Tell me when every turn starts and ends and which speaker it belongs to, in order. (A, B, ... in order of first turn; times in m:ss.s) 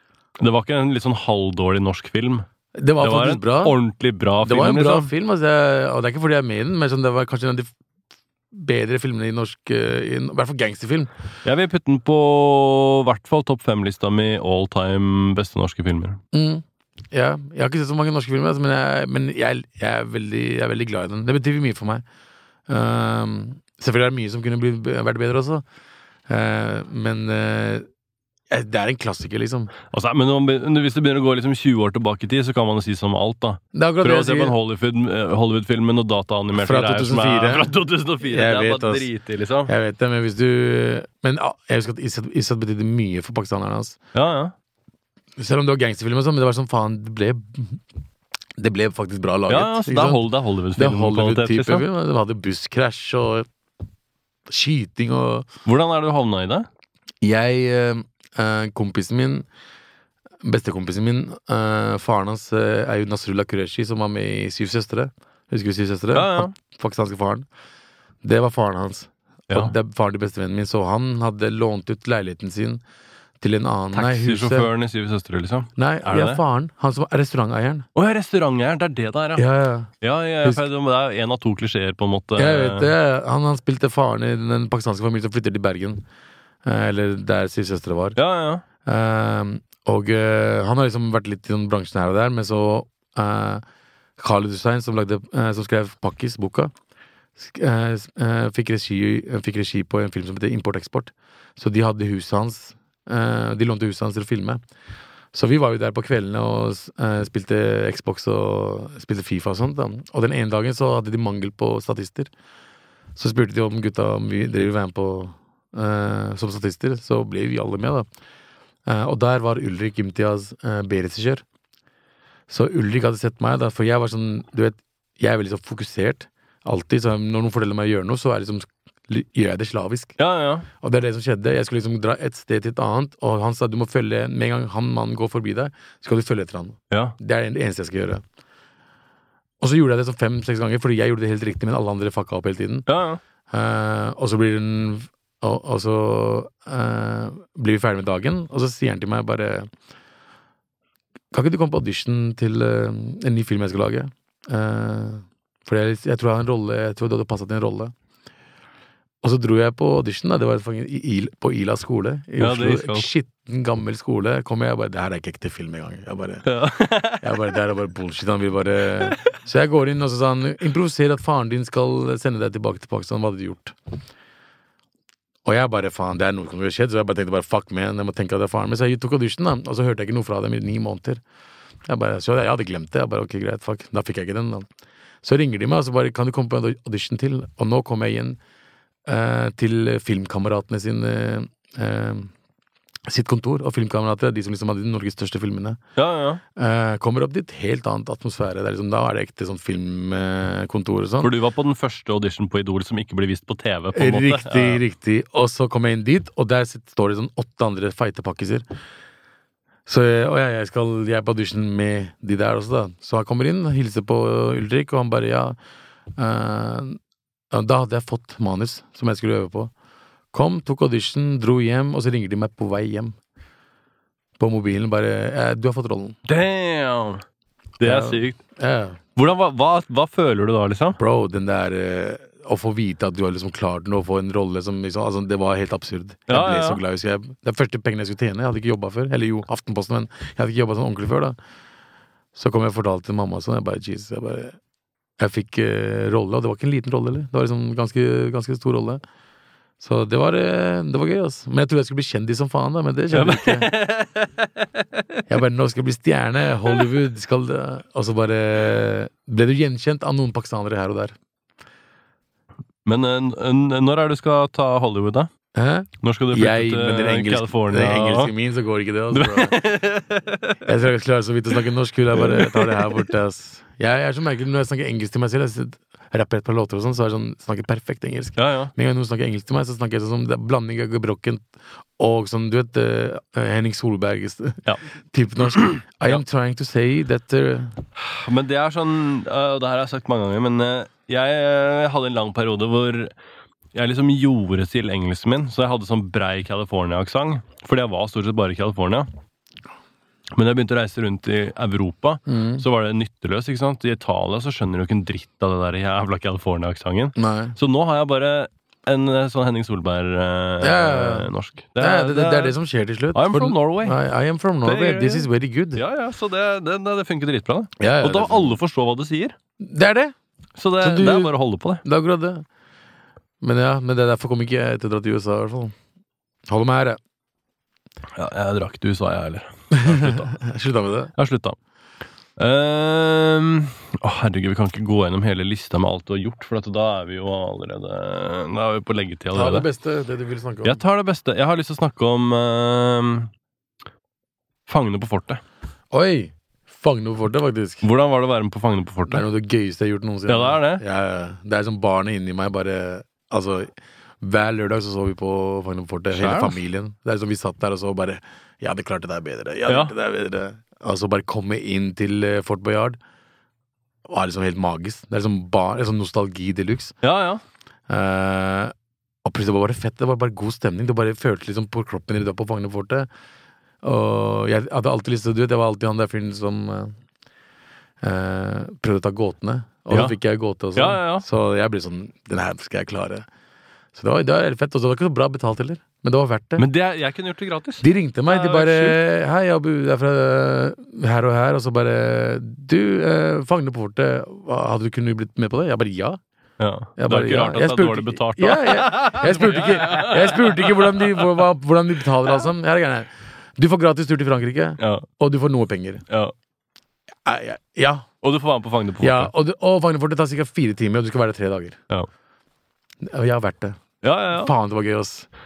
0:00.4-0:02.4 A
0:02.7-0:03.8 B
0:03.0-0:05.1 A
0:04.4-0:07.7 B
0:08.5-0:11.1 B
0:11.4-0:16.2 A
0:16.3-0:22.0 B
0:22.7-0:25.6 B
0:26.3-0:27.9 B
0:28.5-0:29.7 B
0:29.9-0:39.7 A
0:33.7-0:34.5 B
0:36.5-0:37.7 B
0:38.2-0:39.1 B
0:39.6-0:44.0 B
0:44.1-0:44.5 A
0:45.4-0:47.8 B
0:48.6-0:50.2 B
0:49.5-0:51.8 A
0:50.7-0:53.5 B
0:54.5-0:55.5 B
0:55.6-0:56.7 A
0:57.2-0:59.5 B
1:00.4-1:07.5 B
1:06.1-1:06.5 A
1:08.2-1:12.8 B
1:09.5-1:09.7 A
1:13.4-1:14.7 B
1:13.9-1:16.4 A
1:15.8-1:17.9 B
1:17.9-1:19.4 A
1:19.4-1:19.9 B
1:20.0-1:22.9 A
1:22.4-1:26.0 B
1:26.6-1:28.2 B
1:28.2-1:28.6 A
1:28.8-1:33.6 B
1:34.2-1:36.7 B
1:37.4-1:44.6 B
1:45.3-1:52.3 B
1:53.2-1:58.1 B
1:58.8-2:01.4 B
2:02.5-2:10.2 B
2:10.2-2:10.7 A
2:10.8-2:18.2 B
2:16.9-2:17.2 A
2:19.6-2:22.8 B
2:22.9-2:23.2 A
2:23.5-2:29.7 B
2:31.3-2:37.9 B
2:39.2-2:46.4 B
2:42.4-2:43.1 A
2:46.4-2:47.4 A
2:47.2-2:53.8 B
2:55.4-3:01.2 B
3:01.8-3:04.7 B
3:05.2-3:08.4 B
3:09.0-3:12.3 B
3:13.1-3:15.8 B
3:16.0-3:16.4 A
3:16.5-3:21.3 B
3:21.2-3:24.8 A
3:23.9-3:28.6 B
3:29.8-3:35.6 B
3:36.2-3:37.0 B
3:37.5-3:39.7 B
3:40.3-3:43.2 B
3:44.4-3:46.2 B
3:46.2-3:47.2 A
3:47.8-3:48.4 A
3:47.8-3:49.0 B
3:49.2-3:51.0 A
3:51.0-4:01.4 B
3:56.3-3:56.8 A
4:02.3-4:04.6 B
4:05.2-4:09.0 B
4:09.8-4:13.7 B
4:13.1-4:14.8 A
4:15.3-4:21.1 B
4:22.8-4:25.3 A
4:25.5-4:29.6 B
4:26.0-4:28.3 A
4:29.1-4:30.6 A
4:30.6-4:47.8 B
4:32.1-4:33.0 A
4:38.4-4:38.7 A
4:45.5-4:46.2 A
4:48.0-4:53.1 A
4:53.7-4:59.1 A
5:00.3-5:12.5 A
5:02.3-5:02.6 B
5:07.2-5:07.6 B
5:10.6-5:15.8 B
5:13.1-5:14.0 A
5:14.6-5:19.3 A
5:17.8-5:18.5 B
5:19.6-5:20.1 B
5:20.6-5:21.8 A
5:20.8-5:22.4 B
5:23.4-5:25.7 B
5:26.5-5:27.0 B
5:28.2-5:30.3 A
5:29.7-5:31.1 B
5:31.2-5:31.6 A
5:32.4-5:39.7 A
5:39.3-5:40.8 B
5:40.6-5:43.3 A
5:44.7-5:45.4 A
5:45.9-5:47.8 B
5:47.8-5:49.2 A
5:49.1-6:03.0 B
5:50.3-5:50.8 A
5:56.1-5:56.6 A
5:59.7-5:59.9 A
6:04.0-6:07.0 B
6:07.0-6:07.4 A
6:07.9-6:13.1 B
6:13.8-6:16.9 B
6:18.0-6:23.2 B
6:19.9-6:20.2 A
6:20.7-6:21.2 A
6:23.9-6:26.6 B
6:26.6-6:29.0 A
6:27.8-6:36.2 B
6:36.6-6:41.2 A
6:37.0-6:46.0 B
6:44.8-6:45.1 A
6:46.1-6:46.3 A
6:47.2-6:48.1 B
6:48.2-6:49.3 A
6:49.0-6:51.8 B
6:53.0-6:53.8 B
6:54.0-6:54.5 A
6:54.3-6:55.3 B